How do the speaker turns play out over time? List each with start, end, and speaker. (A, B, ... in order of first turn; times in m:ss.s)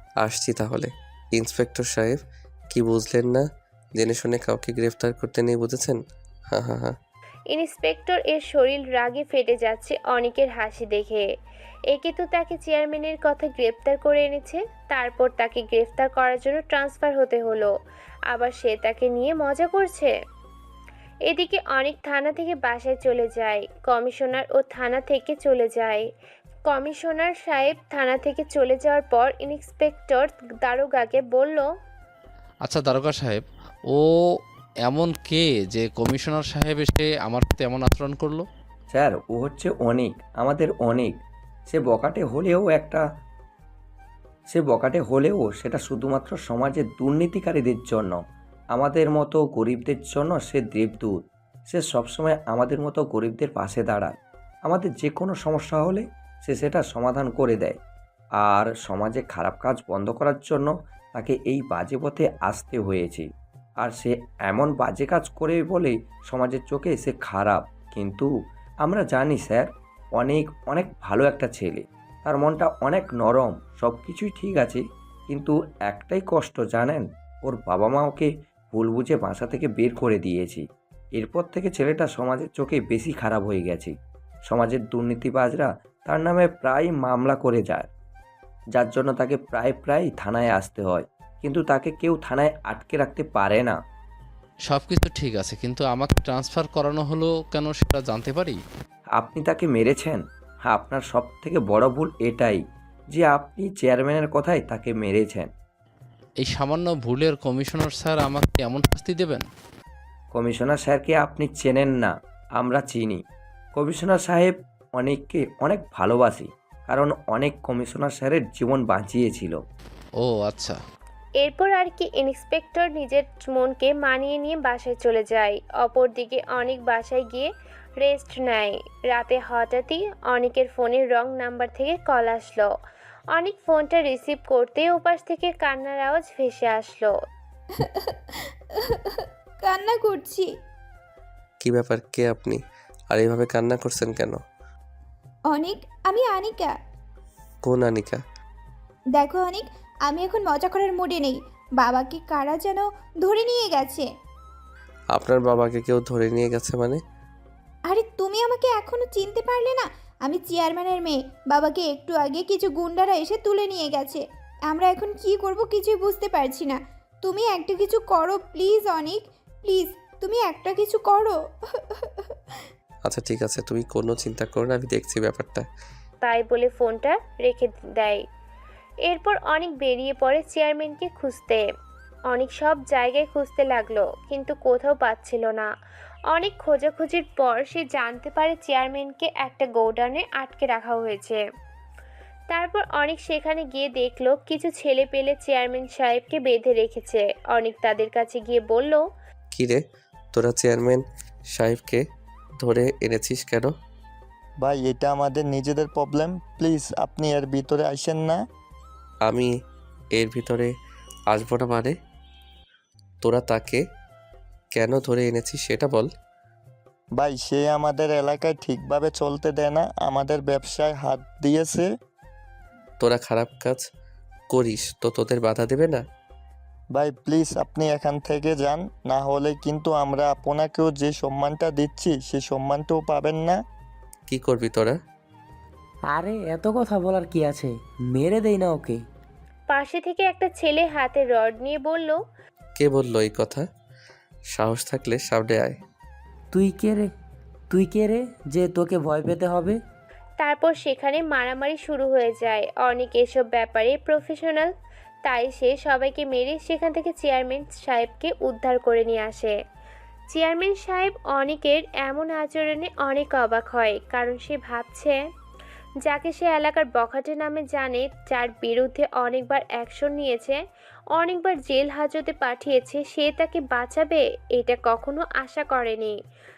0:00.2-0:06.0 A
0:06.5-0:07.0 A
0:07.5-0:11.3 B
0:11.9-0:17.7 B
0:18.3-0:20.1 B
0:21.3-0:26.1 B
0:26.7-0:31.7 B
0:32.6-0:38.4 C
0:38.9-0:41.2 D
0:41.7-0:43.0 D
0:44.5-0:48.2 D
0:48.7-0:51.2 D
0:51.7-0:54.1 D
0:54.6-0:57.8 D
0:58.4-1:03.3 D
1:03.8-1:08.3 D
1:08.8-1:20.6 D
1:21.2-1:23.9 D
1:24.5-1:27.9 D
1:28.7-1:33.8 D
1:34.7-1:38.6 C
1:39.2-1:45.5 D
1:46.4-1:49.5 C
1:50.3-1:53.2 D
1:53.8-1:59.6 D
2:00.2-2:00.8 C
2:01.4-2:12.7 B
2:13.3-2:17.1 B
2:17.7-2:20.5 E
2:21.6-2:24.4 A
2:25.5-2:26.8 E
2:27.6-2:28.2 A
2:29.1-2:34.1 E
2:35.1-2:37.0 A
2:37.9-2:52.4 E
2:53.0-2:55.7 A
2:56.2-2:58.2 B
2:59.1-3:01.6 B
3:02.3-3:05.7 B
3:06.3-3:11.4 B
3:12.5-3:19.0 B
3:19.5-3:19.8 A
3:20.3-3:22.0 A
3:22.6-3:23.7 A
3:24.6-3:28.4 F
3:29.2-3:29.5 A
3:30.1-3:30.7 A
3:31.3-3:31.9 A
3:33.2-3:33.8 A
3:34.7-3:36.1 A
3:37.2-3:41.9 F
3:43.0-3:43.9 A
3:44.5-3:46.0 A
3:46.9-3:53.6 F
3:54.3-3:55.0 A
3:56.1-3:59.0 G
3:59.7-4:02.2 B
4:02.8-4:03.7 A
4:04.5-4:05.8 A
4:06.5-4:07.1 G
4:07.7-4:09.8 G
4:10.4-4:14.7 B
4:15.2-4:19.6 B
4:20.3-4:25.2 B
4:26.0-4:30.6 B
4:31.2-4:36.2 B